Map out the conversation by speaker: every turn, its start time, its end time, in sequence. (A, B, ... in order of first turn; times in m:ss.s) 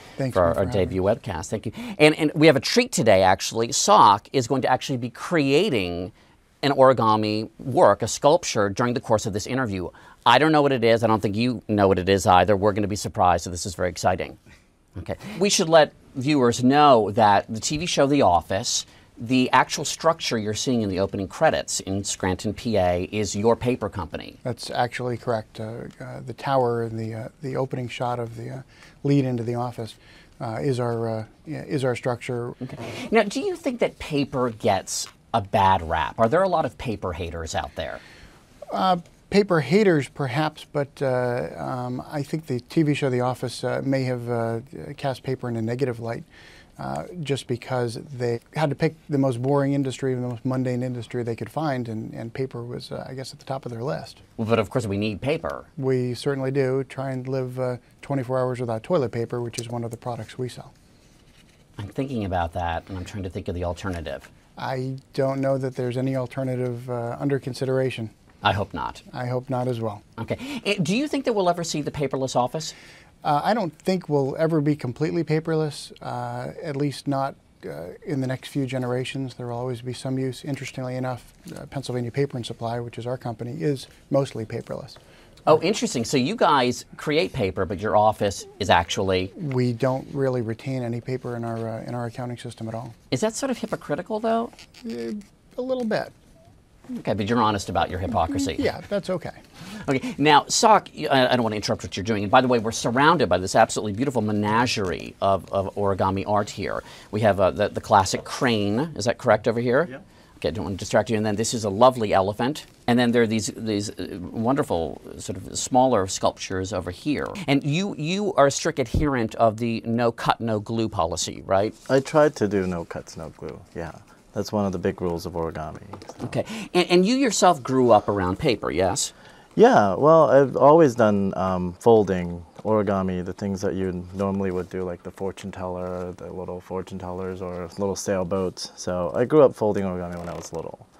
0:00.2-0:01.0 A
0:00.3-0:14.4 B
0:15.0-0:24.4 B
0:24.4-0:32.6 A
0:32.6-0:38.0 B
0:38.7-0:46.3 A
0:46.8-0:54.2 A
0:54.4-0:55.7 B
0:55.8-1:00.7 A
1:01.8-1:04.3 B
1:04.6-1:08.1 A
1:08.4-1:09.0 B
1:09.1-1:10.0 A
1:10.2-1:12.8 B
1:13.2-1:25.0 A
1:25.5-1:29.3 B
1:29.4-1:32.9 A
1:33.1-1:34.5 B
1:34.8-1:36.1 A
1:36.9-1:38.7 B
1:38.3-1:39.4 A
1:39.7-2:01.8 B
2:01.9-2:06.3 C
2:06.2-2:09.1 B
2:09.6-2:20.9 C